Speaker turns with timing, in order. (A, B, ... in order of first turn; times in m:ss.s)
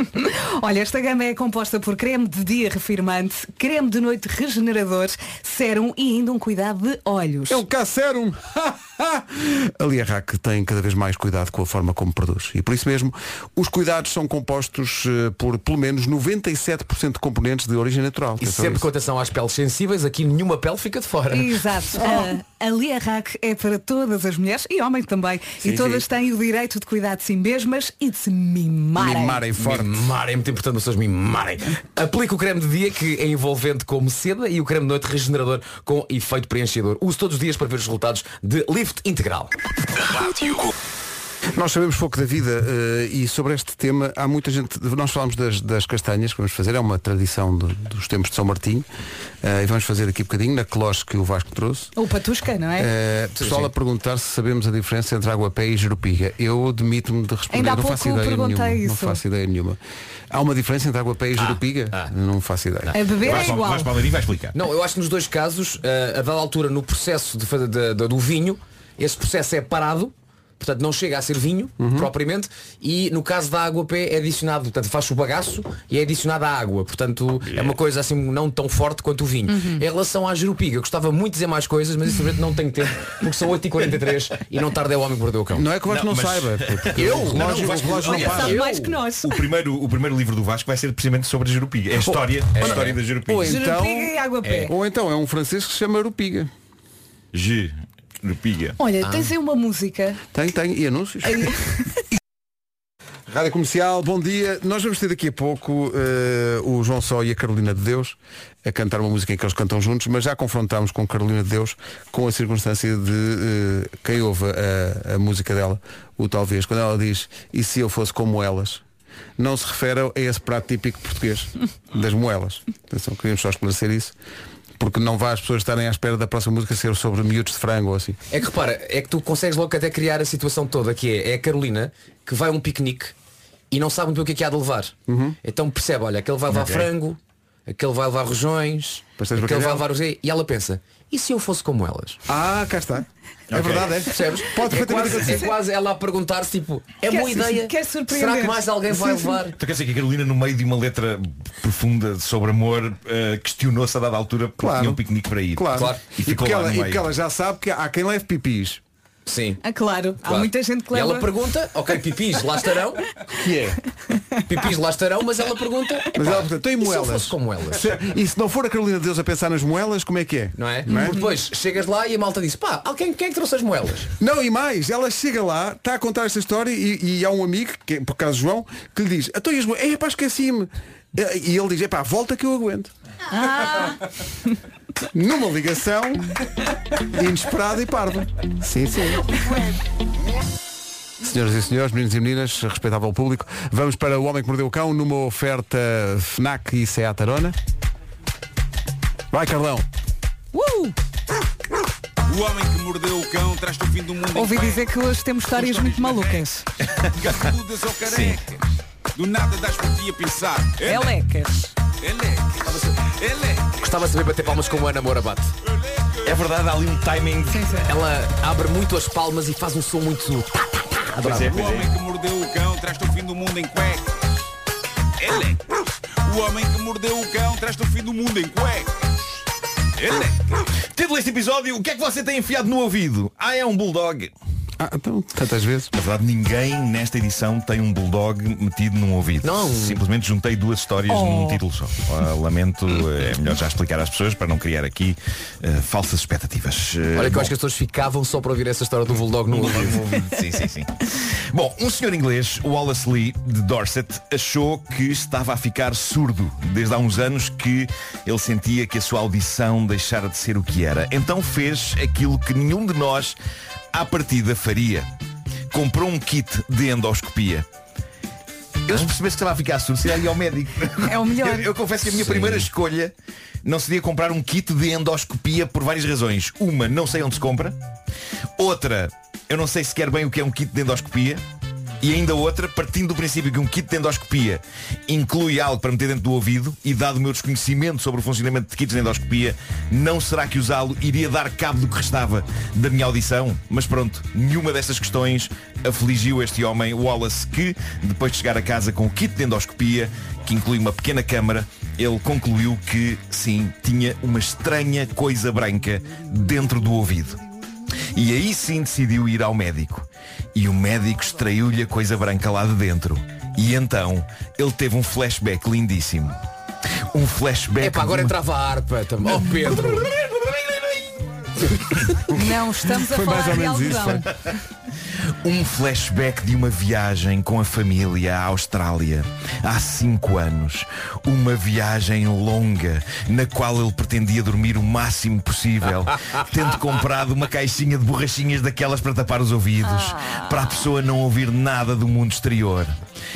0:00.1-0:07.6 A
0:07.5-0:18.9 B
0:18.4-0:22.3 C
0:21.3-0:29.4 A
0:25.6-0:26.0 B
0:29.0-0:30.1 B
0:29.6-0:39.5 C
0:41.6-0:48.9 B
0:49.4-0:51.9 B
0:52.0-0:52.9 A
0:52.8-0:59.8 B
0:53.4-0:53.7 C
0:57.5-0:59.2 A
1:00.3-1:03.0 B
1:01.4-1:02.1 C
1:02.9-1:03.9 A
1:03.2-1:04.6 D
1:04.5-1:25.7 C
1:11.8-1:12.1 B
1:19.5-1:19.8 A
1:25.6-1:28.6 B
1:25.8-1:28.7 D
1:27.0-1:29.0 C
1:28.0-1:29.5 A
1:29.2-1:33.6 D
1:32.0-1:36.5 B
1:32.6-1:33.0 C
1:33.4-1:34.7 A
1:34.4-1:34.7 C
1:37.3-1:38.8 D
1:38.8-1:40.2 A
1:39.0-1:39.3 C
1:40.3-1:41.5 B
1:41.3-1:41.9 A
1:43.3-1:58.8 B
1:59.4-2:04.2 B
2:04.8-2:08.2 B
2:08.3-2:13.1 C
2:13.7-2:22.2 C
2:15.1-2:15.4 B
2:19.2-2:19.8 B
2:22.3-2:25.5 B
2:23.5-2:23.9 D
2:23.9-2:29.6 C
2:25.2-2:25.5 A
2:27.0-2:29.3 A
2:29.5-2:37.1 D
2:34.6-2:35.0 B
2:35.5-2:38.8 B
2:35.8-2:36.0 C
2:39.3-2:39.6 C
2:39.6-2:41.3 A
2:40.2-2:43.0 C
2:43.4-2:43.8 B
2:44.5-2:48.0 C
2:46.2-2:51.2 B
2:50.6-2:54.1 C
2:54.2-3:02.9 B
3:03.3-3:04.0 A
3:05.1-3:06.3 B
3:07.1-3:09.4 B
3:11.2-3:17.6 B
3:19.3-3:19.8 B
3:20.5-3:21.0 A
3:22.3-3:24.9 E
3:24.3-3:26.7 A
3:25.5-3:26.5 E
3:27.0-3:27.5 D
3:27.2-3:28.6 E
3:28.1-3:28.4 D
3:29.2-3:31.2 E
3:30.9-3:31.7 A
3:31.9-3:34.8 E
3:32.6-3:32.9 C
3:33.8-3:35.5 C
3:35.7-3:36.4 E
3:36.2-3:37.8 D
3:37.5-3:37.9 A
3:37.8-3:41.7 C
3:41.2-3:41.9 D
3:41.4-3:44.3 E
3:45.2-3:48.9 E
3:50.0-3:50.4 E
3:51.0-3:54.3 D
3:54.8-3:55.9 B
3:55.9-4:07.5 D
3:59.4-4:00.0 C
4:01.1-4:01.6 A
4:07.2-4:10.0 C
4:09.5-4:23.4 D
4:23.9-4:25.1 D
4:25.7-4:27.7 D
4:28.9-4:37.8 D
4:31.0-4:31.7 A
4:32.2-4:32.7 C
4:38.6-4:41.4 D
4:42.0-5:07.4 D
5:08.1-5:16.4 D
5:17.1-5:18.4 D
5:17.8-5:20.1 C
5:19.8-5:21.1 D
5:21.9-5:22.5 B
5:22.3-5:24.4 A
5:23.0-5:24.3 B
5:25.4-5:42.9 D